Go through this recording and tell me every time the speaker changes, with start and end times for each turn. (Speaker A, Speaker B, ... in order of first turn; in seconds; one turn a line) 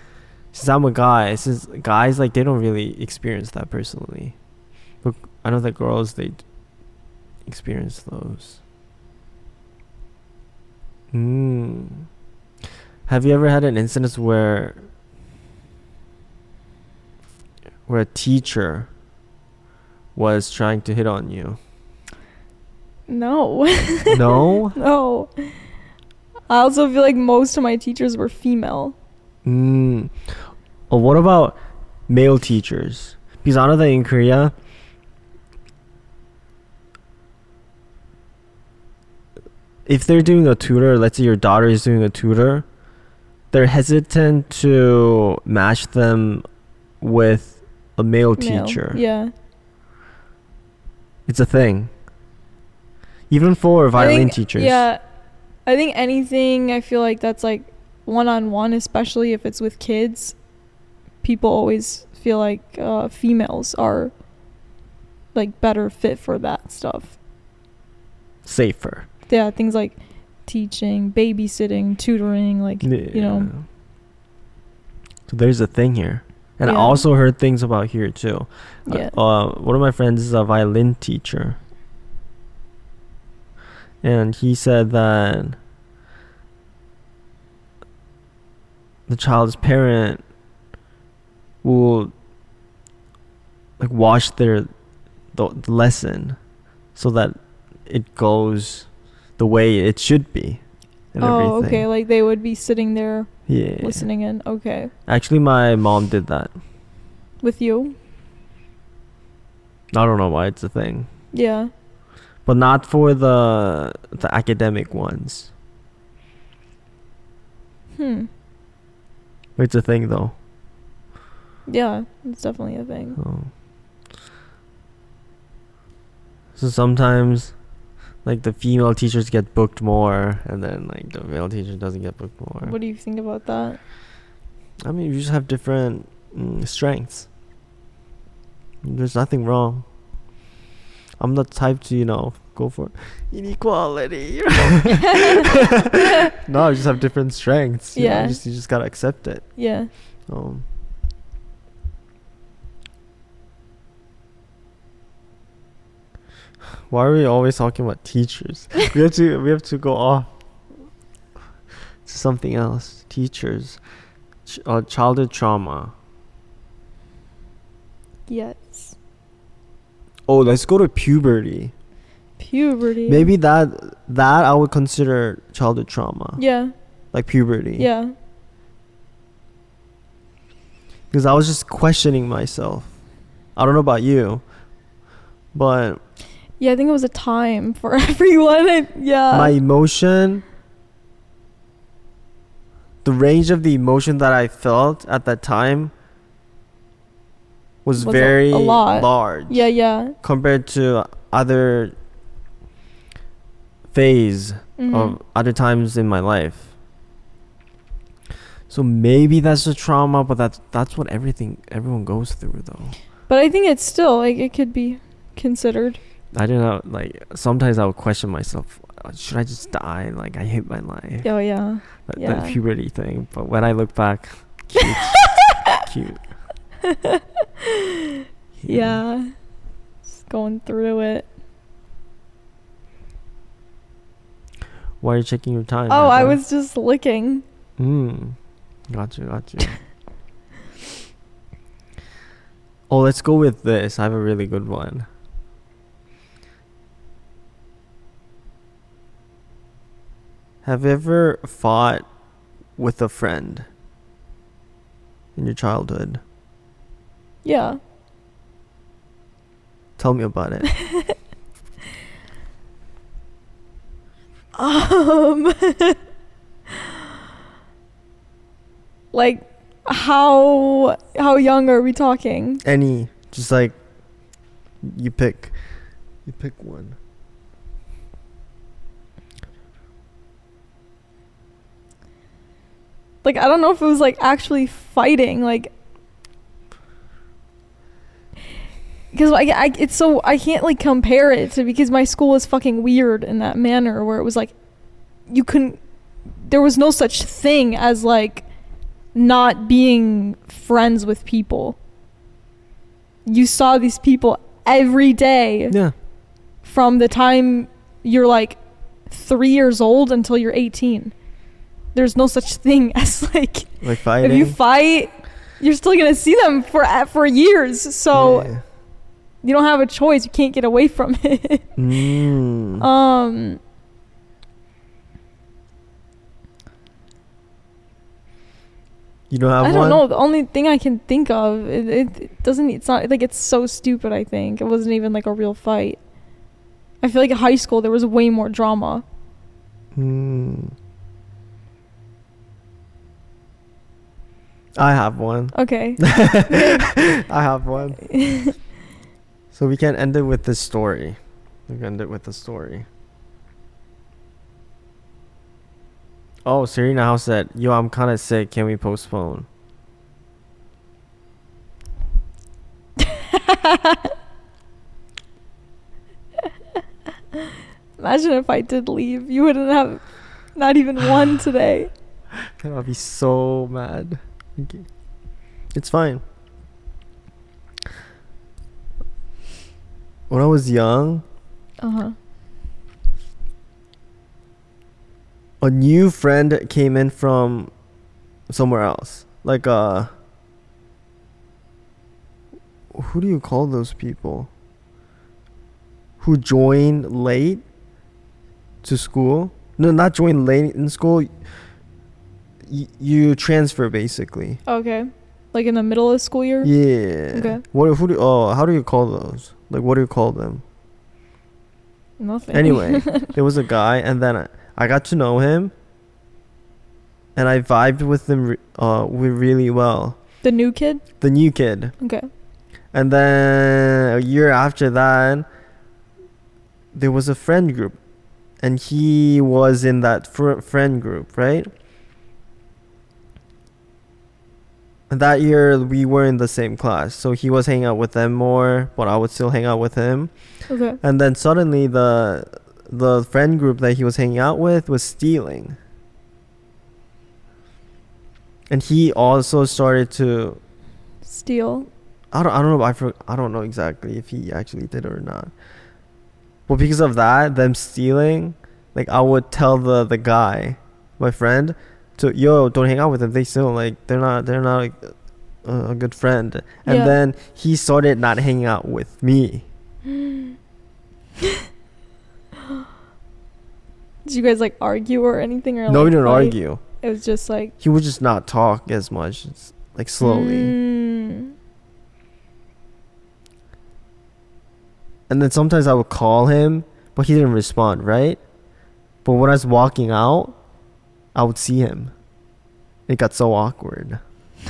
Speaker A: 0.5-4.3
Speaker A: 5.0-6.4
Speaker A: 7.5-8.6
Speaker A: 11.1-12.1
Speaker A: 13.1-14.8
Speaker A: 17.9-18.9
Speaker A: 20.1-21.6
Speaker B: 23.1-25.6
Speaker A: 24.1-24.8
Speaker B: 26.5-28.9
Speaker A: 29.4-30.1
Speaker A: 30.9-34.5
Speaker A: 39.9-42.6
Speaker A: 43.5-46.4
Speaker A: 47.0-49.0
Speaker B: 48.4-49.3
Speaker A: 51.3-51.9
Speaker A: 53.3-54.8
Speaker B: 53.9-55.0
Speaker B: 55.6-60.4
Speaker B: 61.2-64.1
Speaker B: 65.3-67.2
Speaker A: 68.4-69.1
Speaker B: 69.3-73.5
Speaker A: 72.8-73.6
Speaker A: 75.3-81.6
Speaker B: 76.6-77.0
Speaker B: 78.9-79.1
Speaker A: 84.0-85.6
Speaker A: 89.1-90.2
Speaker A: 91.6-92.1
Speaker A: 93.8-94.7
Speaker A: 95.3-96.4
Speaker A: 96.9-97.3
Speaker A: 97.9-100.6
Speaker A: 101.1-101.9
Speaker B: 101.2-104.9
Speaker A: 103.5-104.0
Speaker A: 105.1-106.5
Speaker B: 107.4-108.0
Speaker A: 109.9-111.1
Speaker B: 111.3-111.7
Speaker A: 112.5-115.5
Speaker B: 117.9-118.3
Speaker A: 119.6-120.3
Speaker B: 121.7-123.2
Speaker A: 123.2-123.5
Speaker A: 126.5-127.5
Speaker A: 128.2-132.7
Speaker B: 132.6-133.8
Speaker A: 134.8-137.3
Speaker A: 138.8-139.8
Speaker A: 141.2-149.4
Speaker B: 144.9-146.3
Speaker B: 147.9-148.4
Speaker B: 149.6-149.9
Speaker A: 150.3-150.6
Speaker A: 156.9-160.3
Speaker A: 162.0-163.8
Speaker A: 164.4-165.9
Speaker B: 168.3-168.9
Speaker A: 170.3-171.7
Speaker B: 172.4-173.3
Speaker A: 173.1-176.4
Speaker B: 176.4-176.7
Speaker A: 177.1-177.9
Speaker B: 177.8-178.1
Speaker A: 181.1-182.9
Speaker A: 183.6-184.4
Speaker A: 185.5-186.0
Speaker B: 186.6-189.5
Speaker A: 189.3-190.4
Speaker A: 193.0-195.9
Speaker A: 197.8-199.7
Speaker B: 198.0-200.2
Speaker A: 200.2-201.9
Speaker A: 203.9-206.7
Speaker B: 204.8-205.2
Speaker A: 208.7-212.9
Speaker B: 213.3-216.0
Speaker A: 216.3-221.3
Speaker B: 221.2-222.6
Speaker A: 222.1-226.2
Speaker B: 224.8-225.8
Speaker B: 226.8-229.3
Speaker A: 228.6-229.0
Speaker B: 230.1-231.3
Speaker A: 235.0-236.4
Speaker B: 235.9-237.4
Speaker A: 237.8-238.4
Speaker A: 238.9-239.8
Speaker A: 242.9-245.1
Speaker A: 250.6-252.1
Speaker A: 252.8-253.7
Speaker A: 255.3-256.2
Speaker B: 257.4-257.8
Speaker A: 260.0-260.7
Speaker B: 260.7-261.1
Speaker B: 264.6-266.0
Speaker B: 266.7-267.1
Speaker B: 269.1-272.6
Speaker A: 272.6-273.8
Speaker A: 274.8-275.5
Speaker A: 276.2-277.0
Speaker B: 283.2-285.7
Speaker B: 289.1-294.5
Speaker B: 295.3-298.4
Speaker B: 299.1-301.8
Speaker B: 303.2-305.7
Speaker B: 306.6-311.1
Speaker B: 311.9-318.5
Speaker A: 313.8-314.6
Speaker A: 318.1-318.6
Speaker B: 319.4-321.7
Speaker A: 321.8-322.9
Speaker B: 322.8-323.6
Speaker A: 329.3-330.0
Speaker B: 329.6-336.0
Speaker B: 337.0-339.0
Speaker A: 339.9-340.7
Speaker A: 344.8-348.0
Speaker B: 345.5-346.9
Speaker B: 348.0-348.6
Speaker A: 349.5-351.2
Speaker A: 351.7-352.9
Speaker A: 356.4-359.5
Speaker B: 363.0-364.1
Speaker B: 367.3-370.0
Speaker B: 370.5-371.9
Speaker A: 372.6-374.9
Speaker A: 375.7-376.2
Speaker A: 380.3-381.2
Speaker B: 381.8-382.1
Speaker A: 385.6-387.7
Speaker A: 388.5-390.1
Speaker A: 392.9-394.5
Speaker A: 396.2-397.6
Speaker A: 398.8-401.3
Speaker A: 402.7-404.6
Speaker B: 404.6-406.7
Speaker A: 406.6-410.6
Speaker B: 407.3-407.6
Speaker B: 412.2-413.3
Speaker A: 412.5-415.7
Speaker A: 417.4-420.2
Speaker B: 420.4-421.0
Speaker A: 421.2-421.9
Speaker B: 422.0-422.3
Speaker A: 422.9-425.4
Speaker A: 426.9-428.0
Speaker A: 428.6-431.7
Speaker A: 435.1-440.3
Speaker B: 440.7-441.0
Speaker A: 441.0-445.8
Speaker A: 448.7-450.6
Speaker B: 451.2-451.9
Speaker A: 452.3-455.5
Speaker A: 456.7-465.1
Speaker A: 465.6-469.6
Speaker B: 466.8-467.2
Speaker B: 470.0-470.6
Speaker B: 471.4-471.6
Speaker B: 474.2-477.7
Speaker A: 475.9-476.8
Speaker A: 477.8-480.7
Speaker B: 480.2-481.5
Speaker A: 485.3-488.4
Speaker A: 489.2-490.6
Speaker A: 491.3-492.1
Speaker A: 493.1-494.2